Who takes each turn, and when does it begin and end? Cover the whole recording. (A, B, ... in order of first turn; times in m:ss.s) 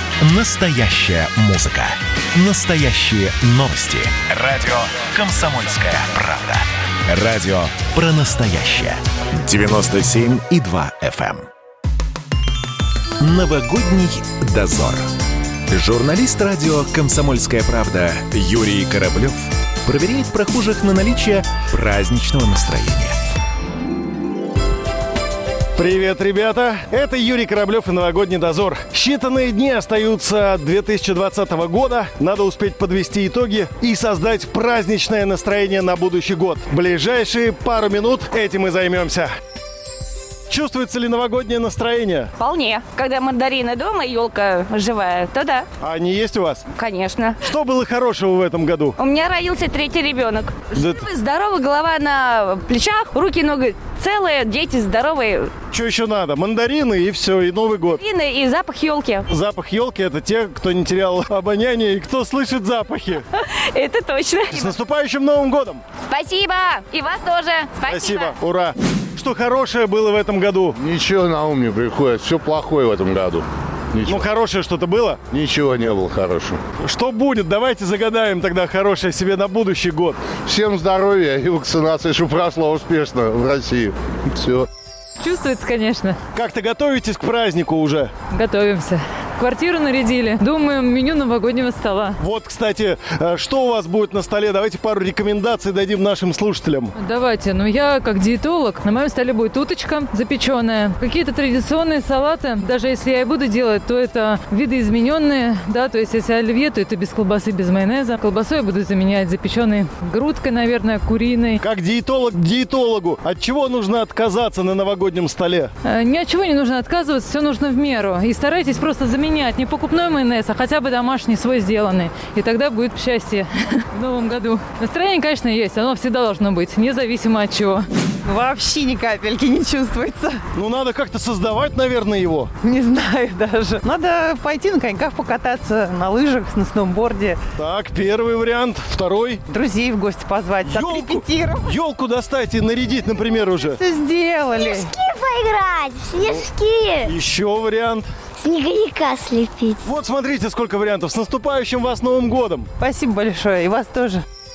0:00.2-0:11.5 A
0:13.2-0:15.1 A
0:15.7-0:23.2 A
0:25.8-0:39.3 B
0:40.5-0:42.3 B
0:42.4-0:45.7 C
0:45.8-0:46.6 B
0:46.8-0:47.4 C
0:47.4-0:49.0 B
0:49.0-0:55.5 C
0:50.7-0:51.1 B
0:55.7-0:58.0 B
0:58.0-0:59.3 C
0:59.3-1:03.2 B
1:03.4-1:04.7 C
1:04.5-1:05.8 B
1:06.1-1:08.3 C
1:07.9-1:10.7 B
1:10.8-1:14.3 D
1:14.1-1:15.2 B
1:15.3-1:16.6 D
1:16.8-1:20.2 B
1:20.4-1:24.7 D
1:25.2-1:26.2 E
1:26.3-1:28.1 B
1:28.3-1:32.2 E
1:32.2-1:36.9 B
1:37.0-1:51.6 E
1:51.6-1:55.7 B
1:55.8-2:07.9 E
2:08.2-2:10.4 F
2:10.5-2:12.5 B
2:12.6-2:17.4 F
2:17.6-2:19.4 B
2:19.5-2:21.8 F
2:20.6-2:23.8 B
2:23.6-2:25.0 F
2:24.6-2:27.1 G
2:27.0-2:28.1 B
2:28.4-2:29.8 G
2:29.8-2:32.7 B
2:32.8-2:34.2 F